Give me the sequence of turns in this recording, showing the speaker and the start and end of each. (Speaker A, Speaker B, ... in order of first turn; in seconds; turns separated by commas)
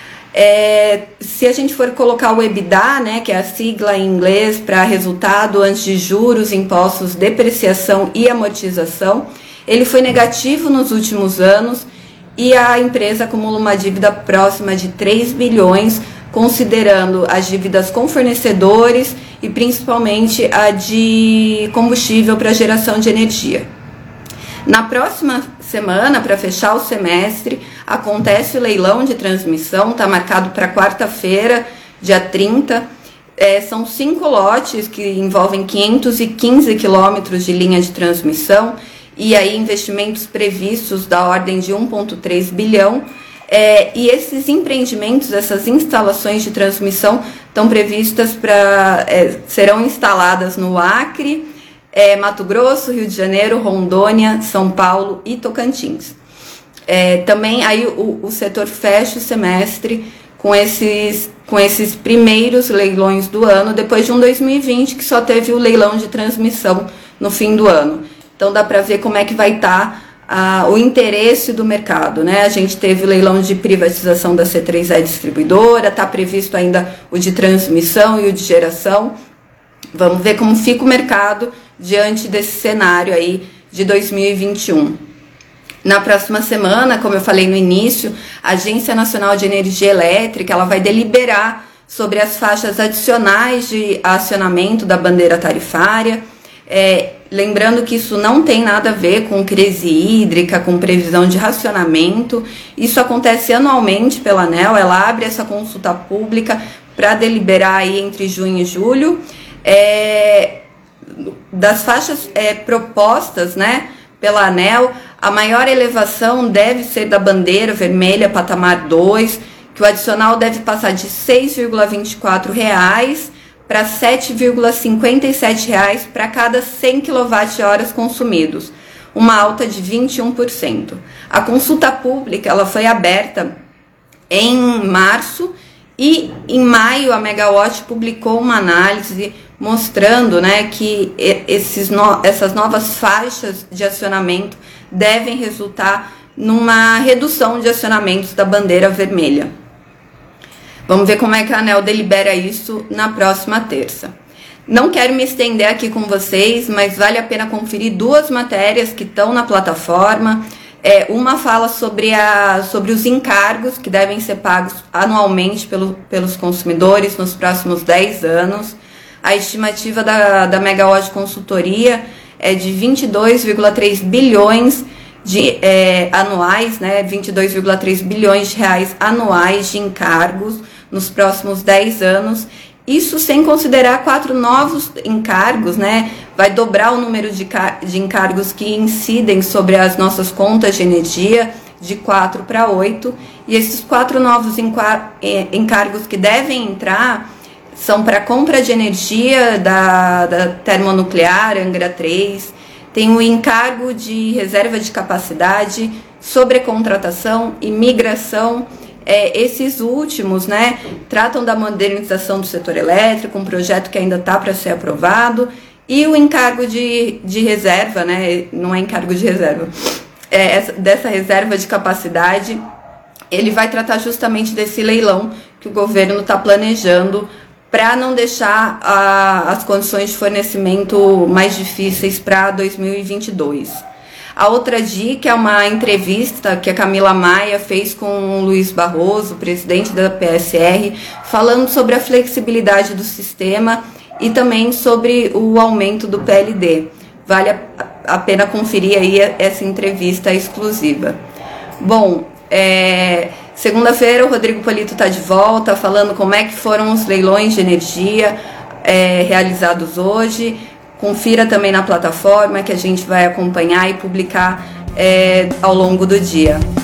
Speaker A: 0.3-23.6, Speaker A: 24.6-32.8, Speaker A: 33.4-56.1, Speaker A: 56.9-79.1, Speaker A: 79.9-85.0, Speaker A: 85.8-110.6, Speaker A: 111.5-133.5, Speaker A: 134.3-149.5, Speaker A: 150.9-154.1, Speaker A: 154.7-219.7, Speaker A: 220.3-222.6, Speaker A: 223.3-233.8, Speaker A: 234.3-251.2, Speaker A: 251.8-266.6